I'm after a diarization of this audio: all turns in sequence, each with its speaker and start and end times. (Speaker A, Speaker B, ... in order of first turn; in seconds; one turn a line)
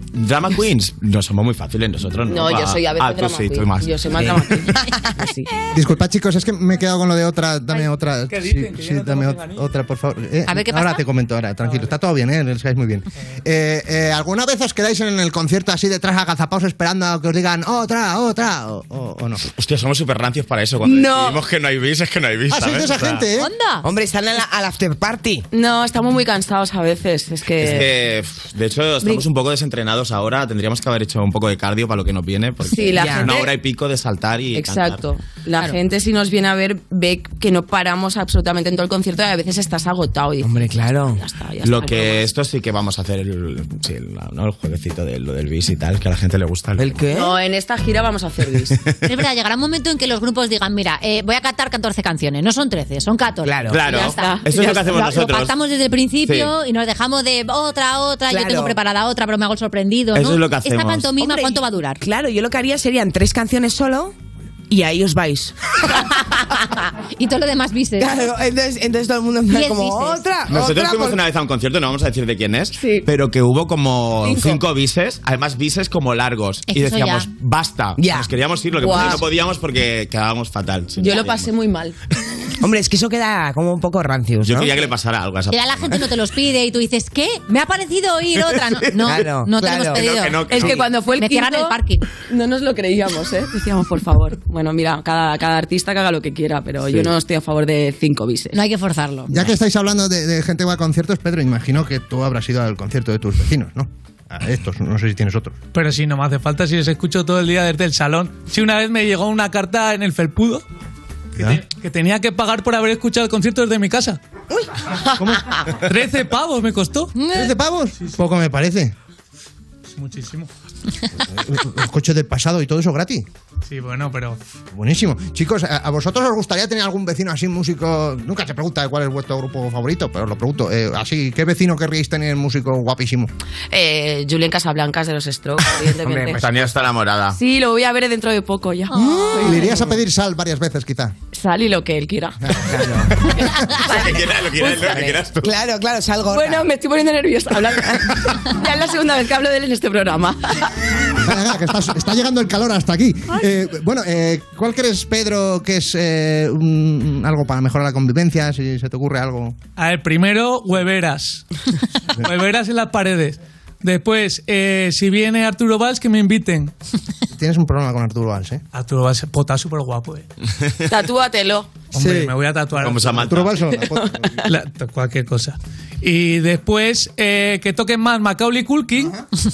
Speaker A: 0.1-4.3
Speaker B: 2.2-5.5
Speaker C: 4.2-5.0
Speaker D: 5.7-19.4
Speaker E: 7.7-9.7
Speaker F: 10.4-11.0
Speaker E: 11.6-12.0
Speaker A: 19.4-23.2
Speaker B: 20.8-21.4
Speaker D: 22.5-23.5
Speaker F: 23.4-23.8
Speaker C: 23.8-25.4
Speaker B: 25.5-27.9
Speaker A: 27.6-35.0
Speaker B: 32.7-33.5
Speaker C: 32.9-33.4
Speaker B: 34.5-42.3
Speaker C: 40.4-41.2
Speaker A: 41.6-47.0
Speaker C: 46.8-47.3
Speaker B: 47.1-48.7
Speaker F: 49.1-62.0
Speaker C: 53.4-53.9
Speaker A: 53.7-55.5
Speaker B: 53.9-55.1
Speaker A: 56.2-56.5
Speaker C: 58.3-58.8
Speaker A: 60.1-61.2
Speaker C: 61.2-64.1
Speaker C: 64.7-65.5
Speaker F: 67.1-68.1
Speaker C: 68.0-71.2
Speaker F: 69.5-70.2
Speaker A: 70.5-81.5
Speaker B: 72.7-73.0
Speaker B: 74.2-74.6
Speaker F: 76.7-77.3
Speaker C: 78.0-78.3
Speaker B: 78.8-79.2
Speaker C: 78.9-79.2
Speaker B: 81.0-81.9
Speaker C: 82.6-84.9
Speaker A: 84.4-86.0
Speaker F: 85.5-92.0
Speaker A: 88.4-89.1
Speaker C: 89.0-90.0
Speaker A: 89.9-90.8
Speaker B: 90.5-91.8
Speaker B: 92.3-98.6
Speaker F: 98.5-99.3
Speaker D: 99.3-105.5
Speaker E: 105.7-110.6
Speaker E: 111.3-114.2
Speaker E: 115.8-117.2
Speaker D: 117.3-118.9
Speaker E: 117.9-118.2
Speaker E: 119.9-120.5
Speaker D: 121.3-123.2
Speaker E: 123.7-124.4
Speaker D: 124.7-133.3
Speaker B: 133.7-136.6
Speaker A: 136.2-137.4
Speaker B: 137.3-139.7
Speaker C: 138.9-139.9
Speaker D: 139.4-141.1
Speaker B: 141.3-142.3
Speaker C: 142.6-143.1
Speaker B: 143.8-145.1
Speaker A: 143.9-145.5
Speaker C: 144.8-146.7
Speaker B: 146.3-150.6
Speaker D: 151.2-159.5
Speaker E: 159.8-161.4
Speaker E: 162.2-166.7
Speaker D: 167.3-168.6
Speaker E: 168.7-170.3
Speaker B: 170.9-171.7
Speaker E: 171.9-173.4
Speaker D: 172.0-172.3
Speaker A: 172.8-173.7
Speaker D: 173.3-174.3
Speaker B: 173.7-174.3
Speaker E: 174.4-179.2